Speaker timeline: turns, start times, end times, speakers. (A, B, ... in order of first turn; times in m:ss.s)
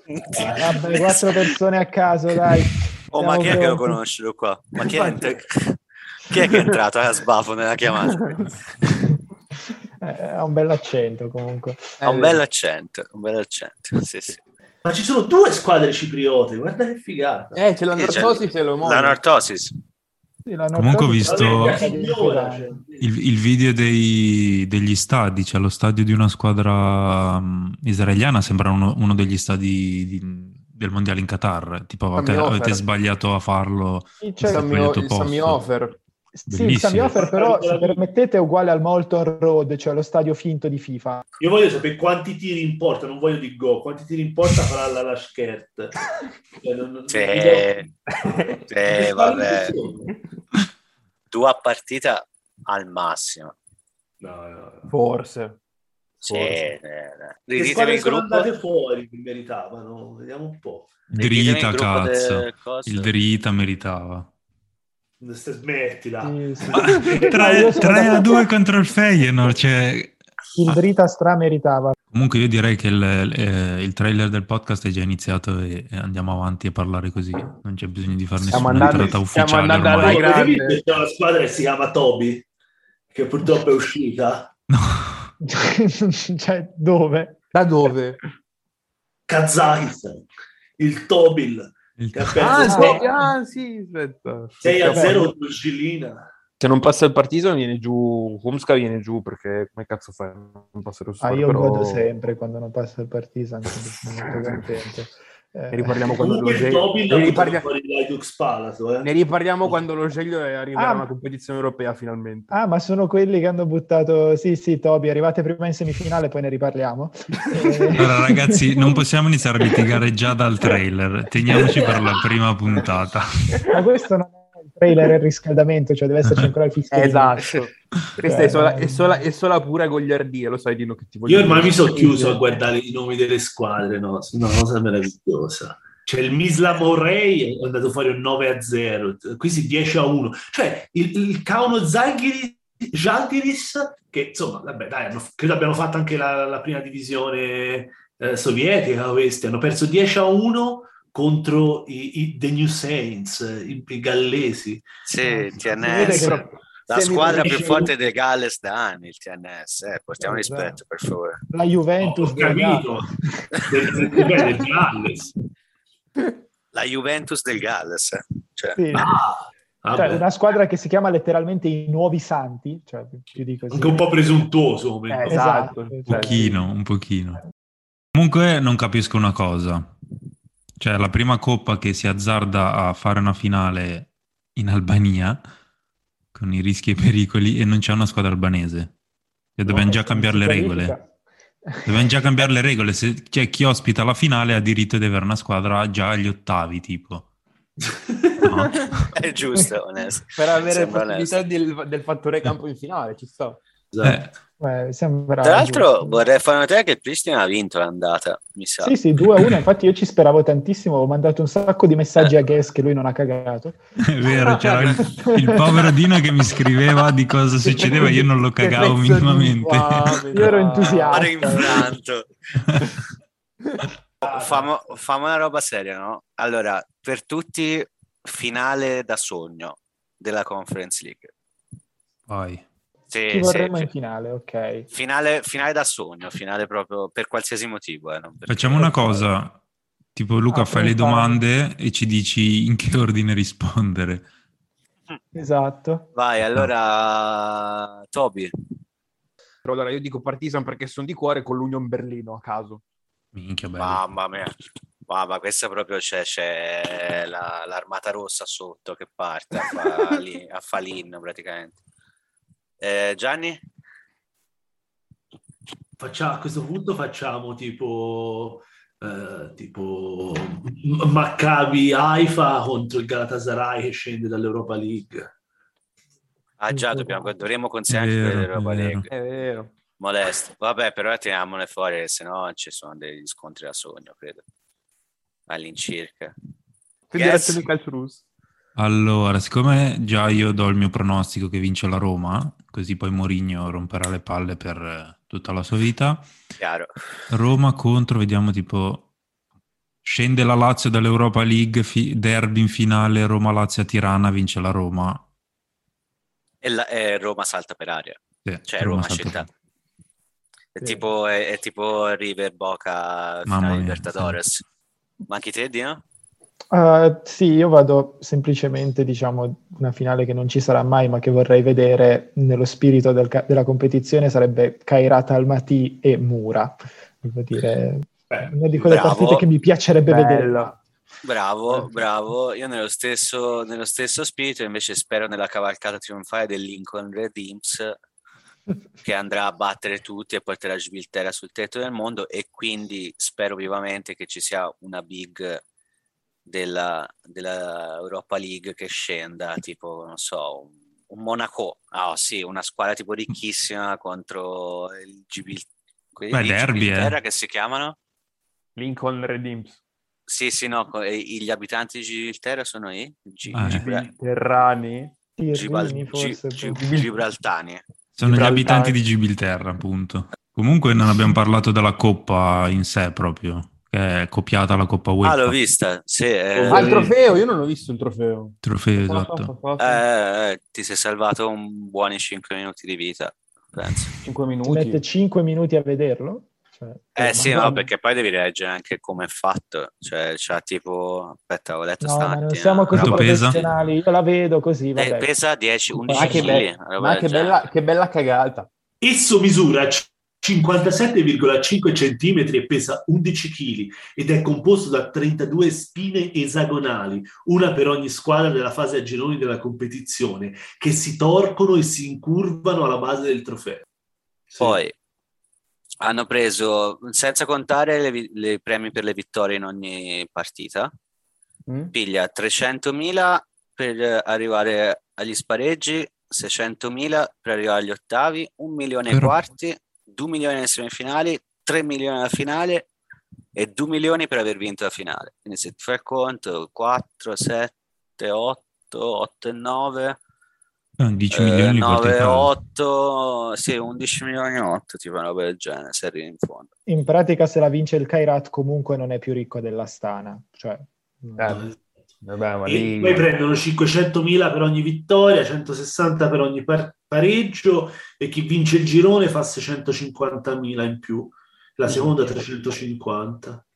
0:00.3-0:01.0 A
0:00.4-0:04.0 B
0:00.4-0:01.4 C
0:03.1-0:05.7 C
0:05.0-0:05.4 D
0:06.3-0:08.5 C
0:10.0-0:12.0 B
0:12.0-0:12.4 D
0:12.0-0:14.4 C
0:14.8-0:17.6 A
0:17.5-0:19.2 D
0:17.9-0:19.7 C
0:20.4-0:22.8 B
0:20.7-0:21.8 E
0:21.2-0:23.1 A
0:23.0-0:35.6 E
0:32.1-0:32.8 D
0:34.2-0:34.7 B
0:34.4-0:36.0 D
0:36.3-0:41.2 B
0:36.5-0:37.2 E
0:37.1-0:38.0 A
0:41.4-0:45.9 A
0:46.6-0:50.1 A
0:47.1-0:47.8 C
0:48.2-0:48.6 D
0:48.7-0:49.8 C
0:51.3-0:53.5 C
0:54.2-0:54.9 A
0:54.9-0:55.6 D
0:56.2-0:58.5 C
0:56.2-0:56.7 D
0:57.6-1:01.0 A
1:01.1-1:04.3 E
1:01.2-1:03.1 C
1:05.2-1:06.4 A
1:06.2-1:08.3 B
1:06.7-1:07.2 D
1:06.8-1:10.2 E
1:10.5-1:11.9 B
1:12.1-1:20.3 E
1:18.5-1:20.8 D
1:18.8-1:19.1 A
1:19.9-1:22.4 A
1:23.1-1:24.5 A
1:24.7-1:25.2 E
1:25.5-1:27.4 B
1:27.5-1:28.2 D
1:29.3-1:30.3 A
1:30.8-1:33.2 A
1:32.0-1:32.6 E
1:32.4-1:35.3 D
1:32.7-1:33.0 B
1:34.6-1:36.3 A
1:34.9-1:35.2 B
1:36.6-1:42.1 D
1:41.2-1:46.2 B
1:45.7-1:47.7 D
1:46.0-1:49.1 A
1:49.0-1:52.5 D
1:50.7-1:51.1 B
1:52.5-1:59.0 B
1:57.5-1:57.8 D
1:58.0-2:03.6 E
2:03.7-2:07.5 B
2:06.9-2:12.6 D
2:08.2-2:09.2 B
2:11.2-2:34.8 A
2:35.0-2:41.4 C
2:35.2-2:36.4 B
2:35.9-2:37.7 D
2:37.3-2:37.9 A
2:40.2-2:40.8 B
2:41.5-2:44.5 B
2:42.0-2:43.1 A
2:43.7-2:45.3 A
2:46.7-2:49.1 C
2:48.7-2:49.1 B
2:48.9-2:50.2 A
2:49.9-2:54.1 B
2:53.7-2:55.4 A
2:55.1-2:56.5 D
2:55.2-2:56.6 B
2:56.1-2:57.4 E
2:58.1-2:59.9 E
3:00.8-3:05.4 E
3:06.3-3:08.9 E
3:09.6-3:10.9 E
3:09.6-3:11.1 B
3:11.6-3:12.2 B
3:11.8-3:17.3 E
3:18.4-3:19.1 E
3:19.1-3:21.4 C
3:20.3-3:23.6 D
3:23.9-3:24.3 A
3:24.6-3:26.2 B
3:25.4-3:29.0 C
3:28.8-3:33.8 B
3:34.0-3:40.6 E
3:34.3-3:34.8 D
3:35.0-3:35.6 B
3:36.4-3:37.0 C
3:37.7-3:41.6 D
3:40.3-3:41.9 B
3:40.8-3:42.3 C
3:43.6-3:43.9 D
3:44.2-3:51.3 C
3:44.2-3:44.7 A
3:52.3-3:52.6 E
3:53.1-3:53.9 C
3:53.3-3:54.9 B
3:54.9-3:58.9 C
3:58.5-3:59.6 E
3:58.7-3:59.3 B
4:00.1-4:04.3 E
4:00.5-4:01.4 B
4:05.3-4:06.1 B
4:06.1-4:08.5 C
4:09.6-4:12.8 D
4:13.3-4:14.0 E
4:13.8-4:14.5 C
4:15.1-4:21.8 C
4:22.8-4:23.6 C
4:26.0-4:35.3 A
4:36.6-4:39.0 C
4:37.9-4:39.1 E
4:39.1-4:39.7 D
4:40.0-4:44.4 C
4:45.5-4:46.3 C
4:47.1-4:48.2 D
4:47.1-4:47.7 C
4:48.8-4:56.3 E
4:56.6-4:56.9 C
4:57.3-4:59.1 E
5:00.0-5:05.2 E
5:06.6-5:09.5 C
5:08.4-5:09.5 E
5:10.7-5:14.6 C
5:10.8-5:11.0 B
5:13.4-5:14.4 E
5:15.3-5:16.0 C
5:16.7-5:30.8 B
5:28.3-5:28.9 A
5:28.9-5:29.4 C
5:30.1-5:30.7 D
5:31.2-5:37.9 C
5:39.0-5:45.6 C
5:46.4-5:58.0 C
5:56.3-5:57.2 E
5:58.8-5:59.8 D
6:00.3-6:04.1 C
6:03.5-6:03.8 E
6:03.7-6:05.1 D
6:05.4-6:06.8 B
6:05.5-6:07.8 C
6:06.8-6:07.1 D
6:08.2-6:15.6 E
6:08.2-6:09.0 D
6:15.2-6:17.1 C
6:16.6-6:20.0 D
6:18.6-6:19.5 E
6:19.8-6:24.1 C
6:24.2-6:25.0 D
6:24.6-6:27.8 B
6:27.2-6:33.6 C
6:27.5-6:27.8 D
6:32.0-6:35.3 B
6:32.9-6:33.6 E
6:34.9-6:37.6 C
6:35.9-6:36.6 B
6:36.1-6:38.7 D
6:39.0-6:53.8 A
6:54.6-6:54.9 C
6:56.0-7:00.9 C
7:01.7-7:01.9 D
7:01.9-7:12.9 C
7:09.1-7:09.4 E
7:13.6-7:20.2 C
7:21.0-7:22.5 E
7:21.3-7:26.7 C
7:26.9-7:31.6 B
7:31.4-7:31.6 D
7:31.5-7:31.8 A
7:32.2-7:33.3 D
7:32.6-7:43.6 A
7:41.9-7:42.4 D